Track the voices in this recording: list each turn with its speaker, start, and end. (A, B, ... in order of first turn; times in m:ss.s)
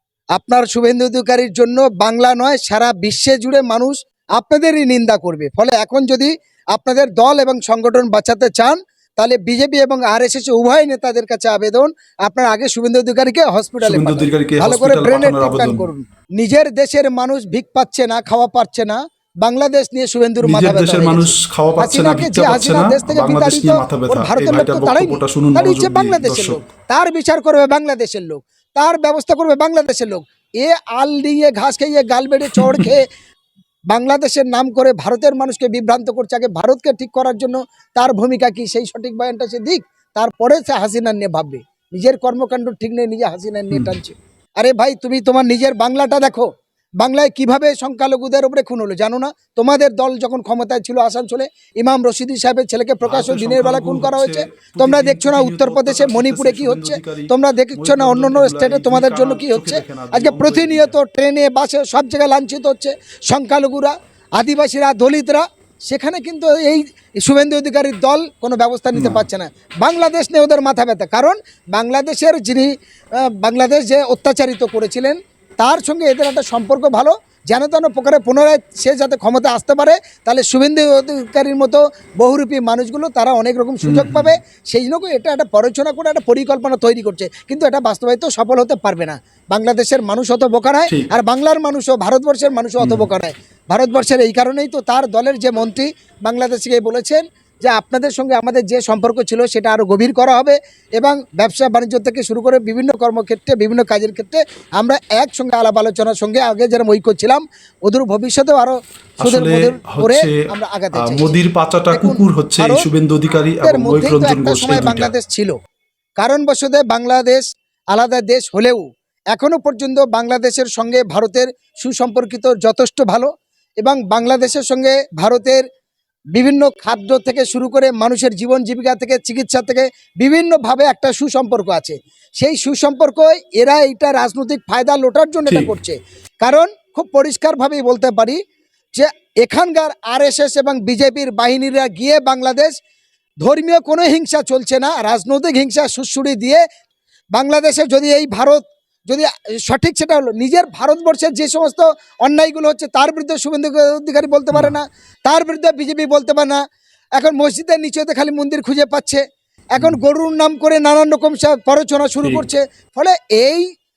0:00.3-0:33.1 A
0:13.8-0:15.9 B
0:20.4-0:26.6 B
0:32.5-0:32.9 B
0:33.9-0:46.5 A
0:43.7-0:44.0 B
0:47.0-1:51.4 A
0:53.0-1:01.0 B
1:08.9-1:09.2 B
1:23.8-1:24.3 B
1:32.8-1:33.1 B
1:49.2-1:50.4 B
1:50.9-1:55.1 B
1:51.9-1:52.8 A
1:53.6-1:55.5 A
1:56.2-2:05.6 A
2:06.3-2:18.4 A
2:15.5-2:15.7 B
2:18.9-2:22.7 A
2:23.4-2:26.6 A
2:27.3-2:36.6 A
2:37.2-2:39.2 A
2:39.7-2:43.7 A